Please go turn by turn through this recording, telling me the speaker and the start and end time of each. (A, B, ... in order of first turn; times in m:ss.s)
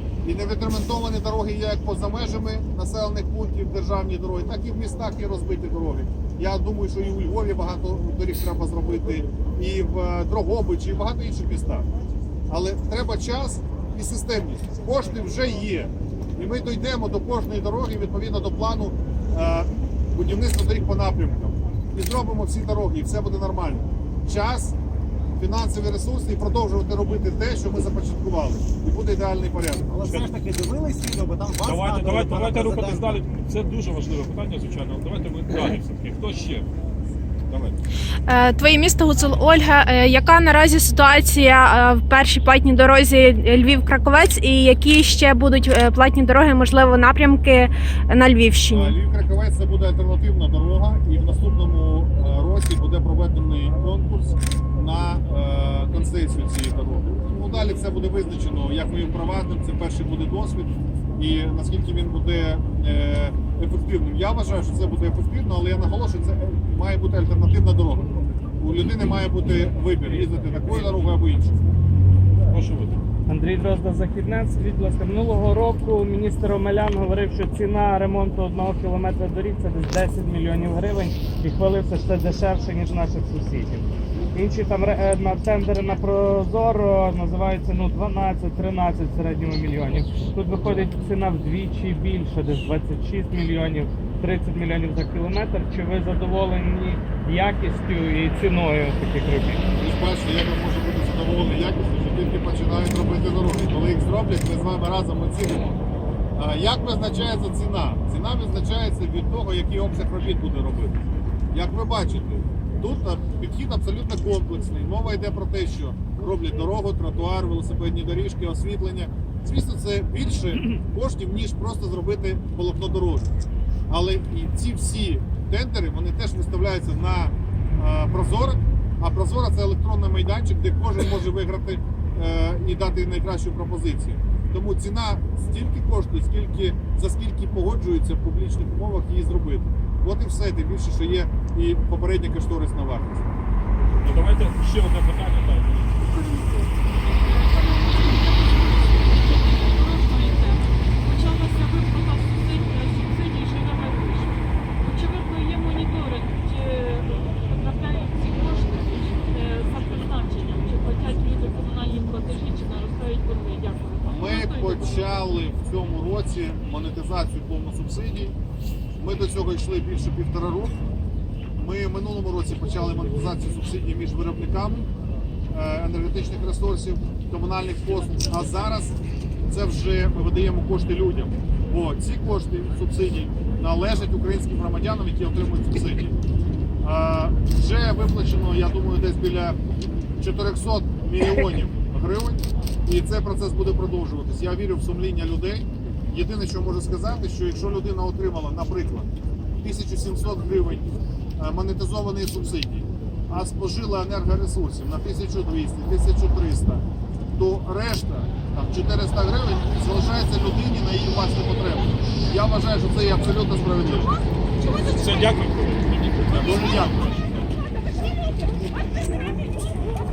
0:00.2-0:11.9 A
0:12.5-0:24.8 A
0:25.4-0:29.9 A
0:29.9-0:33.2 B
0:31.6-0:36.7 C
0:37.5-0:37.8 C
0:38.3-0:49.0 D
0:48.7-1:11.5 A
1:10.1-1:11.0 C
1:12.5-1:13.0 C
1:13.3-1:39.6 E
1:39.8-1:45.8 A
1:46.4-2:03.3 A
2:03.9-2:23.4 A
2:24.0-2:26.0 C
2:26.1-2:45.2 F
2:44.0-2:48.4 A
2:49.0-2:50.8 A
2:51.6-2:54.9 A
2:55.5-2:59.0 A
2:59.5-3:06.2 A
3:06.8-3:09.6 A
3:10.2-3:26.8 A
3:27.4-3:34.1 A
3:34.7-3:36.9 C
3:36.4-3:37.1 A